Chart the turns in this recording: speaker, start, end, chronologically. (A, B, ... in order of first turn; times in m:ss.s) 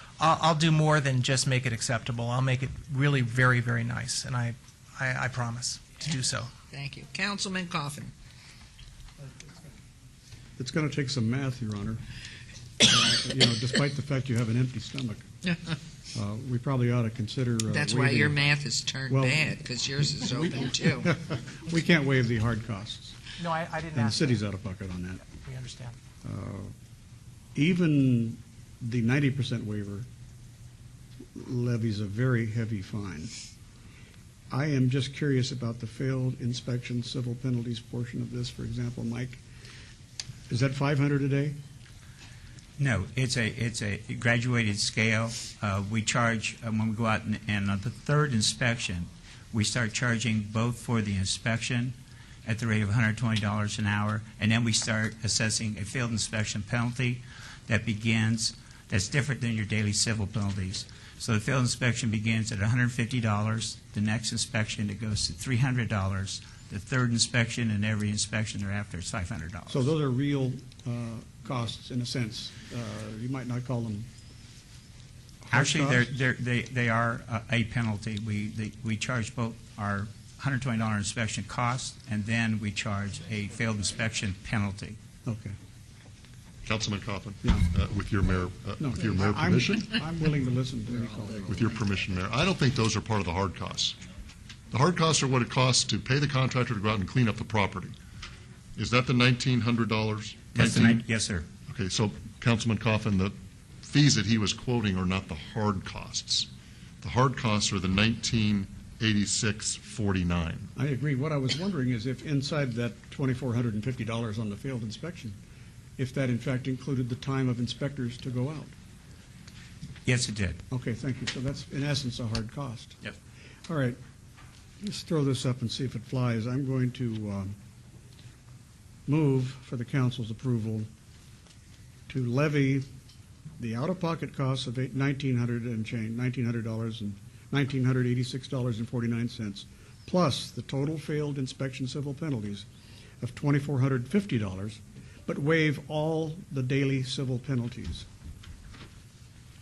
0:00.2-0:06.5 A
0:06.7-0:08.1 B
0:10.6-0:12.0 C
0:12.8-0:15.3 C
0:16.1-0:18.4 C
0:17.7-0:21.1 B
0:19.1-0:23.2 C
0:23.4-0:24.4 A
0:24.0-0:25.2 C
0:25.3-0:26.0 A
0:26.2-0:26.7 C
0:27.6-0:30.1 C
0:31.3-0:33.4 C
0:34.5-0:39.4 C
0:40.5-0:41.6 C
0:42.8-1:09.9 D
1:09.7-1:14.1 C
1:15.4-1:16.1 C
1:15.5-1:25.0 D
1:25.2-1:25.6 C
1:26.6-1:29.9 E
1:27.4-1:27.7 C
1:28.8-1:31.8 C
1:31.5-1:34.0 E
1:34.7-1:38.0 E
1:38.8-1:41.0 E
1:40.5-1:41.5 D
1:41.7-1:46.5 E
1:47.0-1:50.7 E
1:50.8-1:55.4 C
1:56.0-1:58.8 C
2:00.0-2:00.6 D
2:00.7-2:03.0 C
2:03.7-2:04.0 C
2:04.8-2:07.6 C
2:09.1-2:10.9 C
2:12.1-2:12.9 C
2:13.6-2:22.7 C
2:23.2-2:28.1 C